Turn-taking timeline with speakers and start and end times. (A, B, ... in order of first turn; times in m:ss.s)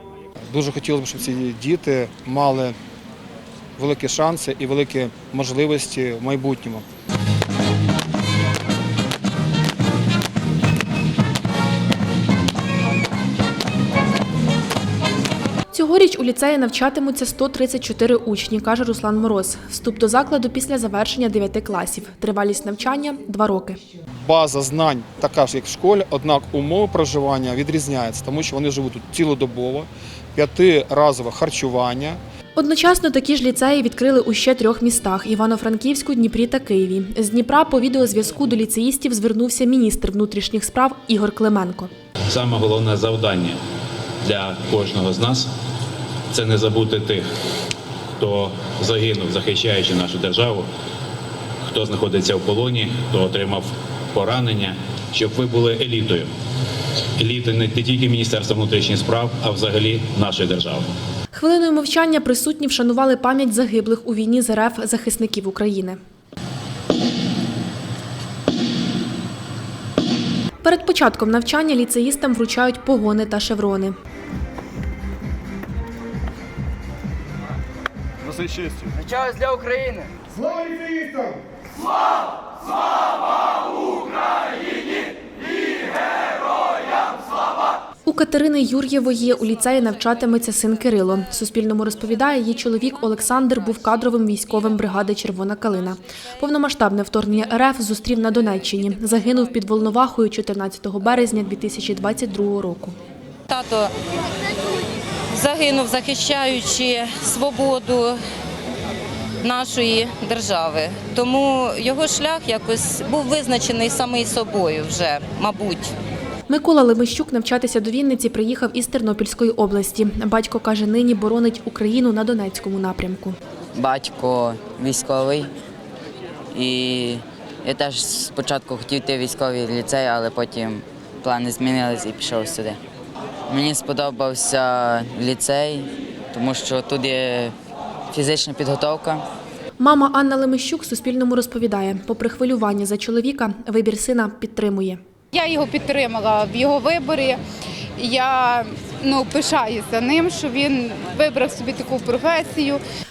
0:00.5-0:02.7 A
0:03.8-0:06.8 A
0:15.7-0:23.8 B
0:24.2-0:32.2 A
0:32.6-0:41.9 B
0:42.3-0:43.6 C
0:44.2-0:45.5 C
0:46.3-0:47.2 C
0:48.2-0:50.7 C
0:51.6-0:56.3 C
0:57.2-1:00.8 C
1:01.3-1:06.0 B
1:10.6-1:13.9 B
1:28.0-1:43.0 B
1:43.5-1:43.9 D
1:45.3-1:48.2 D
1:49.4-1:55.9 D
1:56.5-2:03.4 B
2:03.7-2:05.5 E
2:06.5-2:12.8 E
2:13.5-2:17.5 E
2:18.1-2:19.2 E
2:19.8-2:25.0 B
2:25.3-2:27.4 F
2:28.0-2:32.8 F